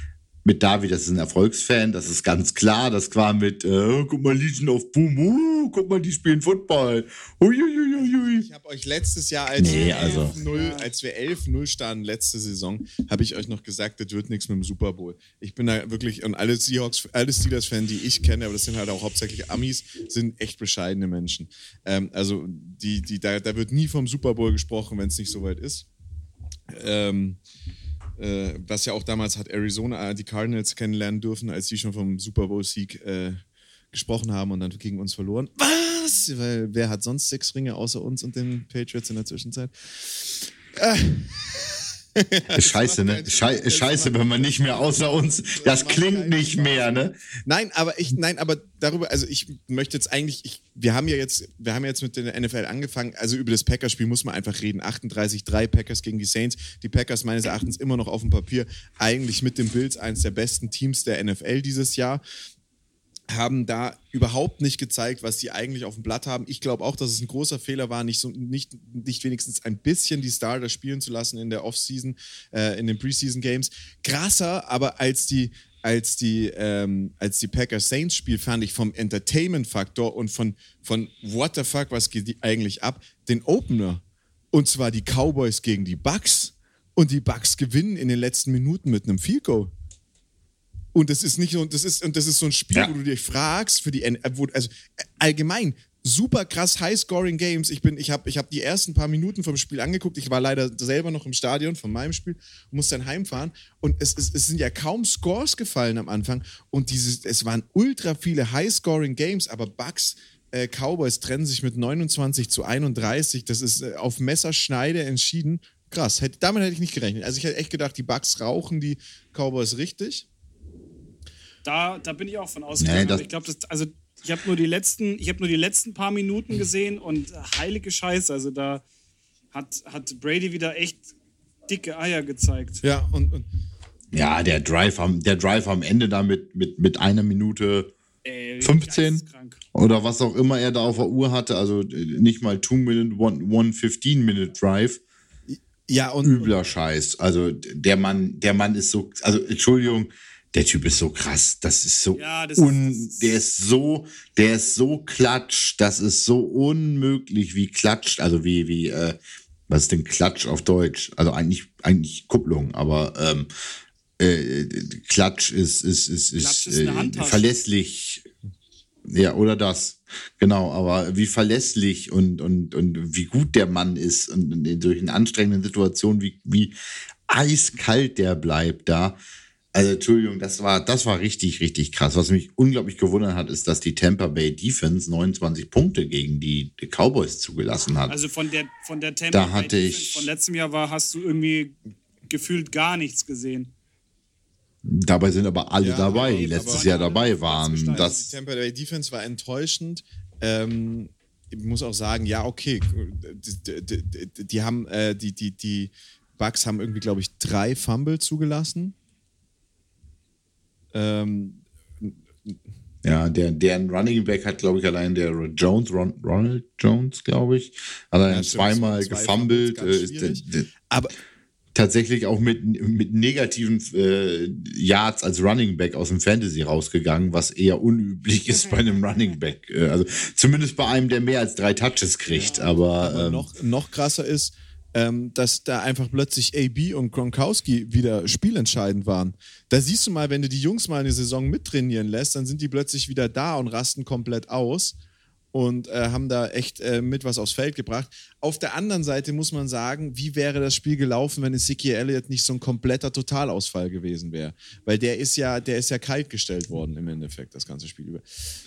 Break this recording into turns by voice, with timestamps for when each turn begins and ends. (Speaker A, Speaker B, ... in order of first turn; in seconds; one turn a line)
Speaker A: 0.4-8.5
Speaker B: 7.9-25.9
Speaker A: 9.6-10.3
Speaker C: 9.6-10.9
Speaker B: 26.7-27.4
Speaker B: 28.2-33.4
Speaker B: 33.9-46.9
Speaker A: 42.5-47.2
Speaker B: 47.4-62.2
Speaker B: 63.3-89.7
Speaker B: 90.9-120.3
Speaker C: 121.6-128.8
Speaker A: 122.8-123.3
Speaker C: 129.5-131.1
Speaker C: 131.7-132.8
Speaker B: 132.8-133.4
Speaker A: 134.1-137.9
Speaker C: 138.2-139.6
Speaker A: 138.6-145.0
Speaker B: 145.5-146.5
Speaker A: 146.2-159.2
Speaker C: 152.1-153.2
Speaker A: 159.7-163.5
Speaker A: 164.2-168.2
Speaker C: 166.4-167.5
Speaker A: 169.1-176.7
Speaker A: 177.3-179.2
Speaker A: 179.7-188.2
Speaker C: 188.1-191.8
Speaker A: 189.3-190.3
Speaker C: 192.3-193.7
Speaker A: 194.8-198.2
Speaker B: 195.8-196.9
Speaker C: 196.0-198.2
Speaker B: 197.9-208.9
Speaker B: 210.9-212.6
Speaker A: 213.0-220.7
Speaker B: 218.3-221.1
Speaker A: 221.7-233.5
Speaker C: 232.3-232.8
Speaker B: 232.3-244.9
Speaker B: 245.5-258.4